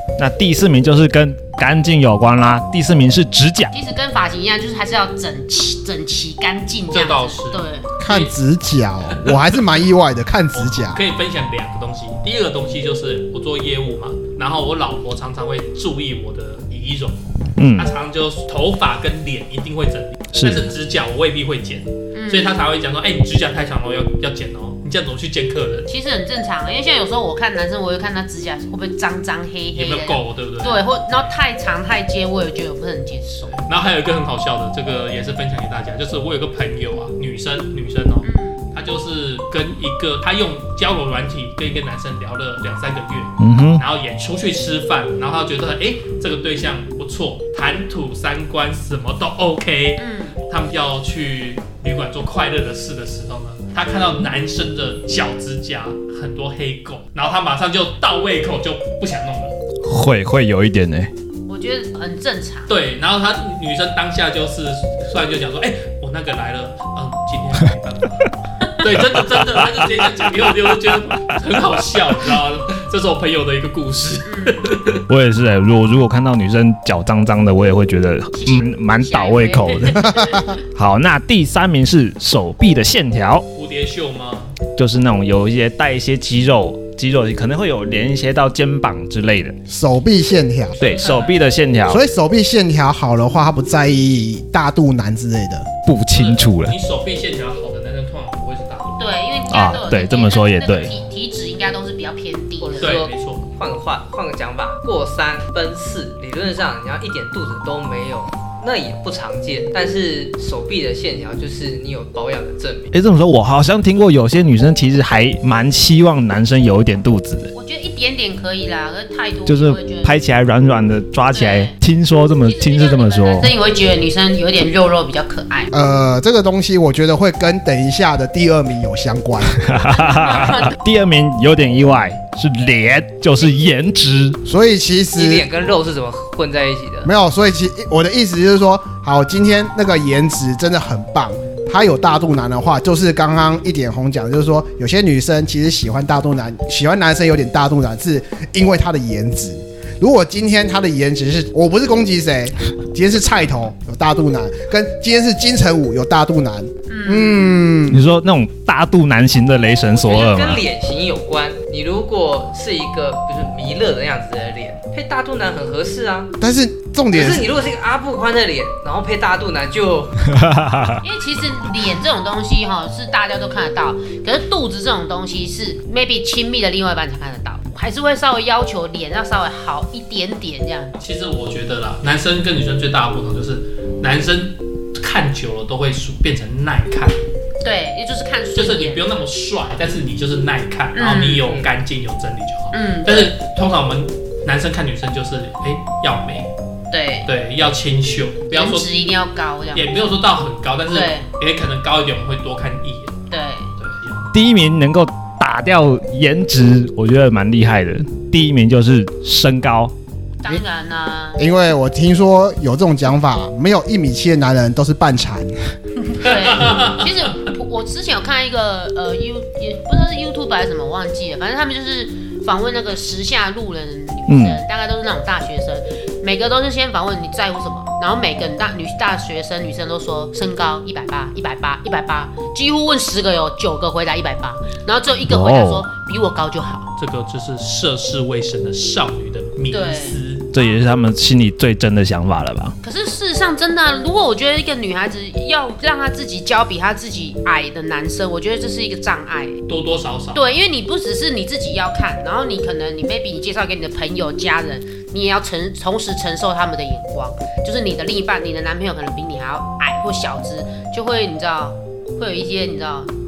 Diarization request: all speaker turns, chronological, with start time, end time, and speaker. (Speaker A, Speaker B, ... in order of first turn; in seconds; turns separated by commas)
Speaker A: 0.2-3.7, Speaker B: 3.7-7.8, Speaker C: 6.9-8.3, Speaker D: 8.0-11.0, Speaker C: 9.1-9.4, Speaker C: 10.5-17.2, Speaker A: 17.6-17.9, Speaker C: 17.8-25.9, Speaker A: 20.3-20.7, Speaker B: 22.1-22.6, Speaker B: 25.9-33.6, Speaker C: 29.8-30.8, Speaker C: 33.5-59.6, Speaker B: 38.2-38.6, Speaker A: 43.4-43.8, Speaker B: 50.0-50.4, Speaker A: 59.8-61.1, Speaker B: 61.5-62.8, Speaker C: 62.7-75.0, Speaker B: 74.2-74.7, Speaker A: 75.1-83.4, Speaker B: 78.3-80.5, Speaker D: 80.2-80.5, Speaker C: 83.5-84.6, Speaker A: 84.8-89.6, Speaker D: 89.7-90.9, Speaker A: 90.8-92.0, Speaker C: 90.9-91.3, Speaker D: 91.9-95.7, Speaker A: 95.8-96.8, Speaker C: 96.1-99.0, Speaker B: 99.0-103.0, Speaker A: 99.5-100.9, Speaker E: 102.6-112.9, Speaker C: 102.8-103.5, Speaker A: 112.9-117.5, Speaker B: 117.5-120.2, Speaker A: 119.5-123.5, Speaker B: 121.3-121.8, Speaker B: 122.4-125.7, Speaker D: 125.7-129.6, Speaker A: 129.5-134.4, Speaker B: 129.9-130.8, Speaker D: 134.5-135.5, Speaker E: 135.2-137.1, Speaker D: 137.0-158.0, Speaker B: 156.9-157.6, Speaker A: 157.9-160.6, Speaker E: 160.0-166.3, Speaker D: 166.4-167.5, Speaker E: 167.1-170.3, Speaker A: 170.3-171.0, Speaker B: 171.0-180.9, Speaker C: 181.0-187.2, Speaker B: 187.6-189.0, Speaker C: 188.5-196.5, Speaker B: 190.9-191.5, Speaker B: 192.7-193.3, Speaker B: 196.9-197.3, Speaker C: 197.3-198.9, Speaker B: 198.5-200.1, Speaker C: 199.7-203.1, Speaker B: 200.9-201.3, Speaker B: 203.3-203.7, Speaker C: 203.8-204.3, Speaker A: 204.3-209.9, Speaker B: 210.4-211.4, Speaker D: 211.4-215.5, Speaker B: 216.0-236.8, Speaker C: 216.3-217.1, Speaker A: 224.3-224.6, Speaker A: 235.3-235.9, Speaker C: 237.0-240.5, Speaker B: 239.7-240.7, Speaker A: 240.5-242.8, Speaker B: 242.8-249.6, Speaker C: 249.7-250.4, Speaker B: 250.3-263.1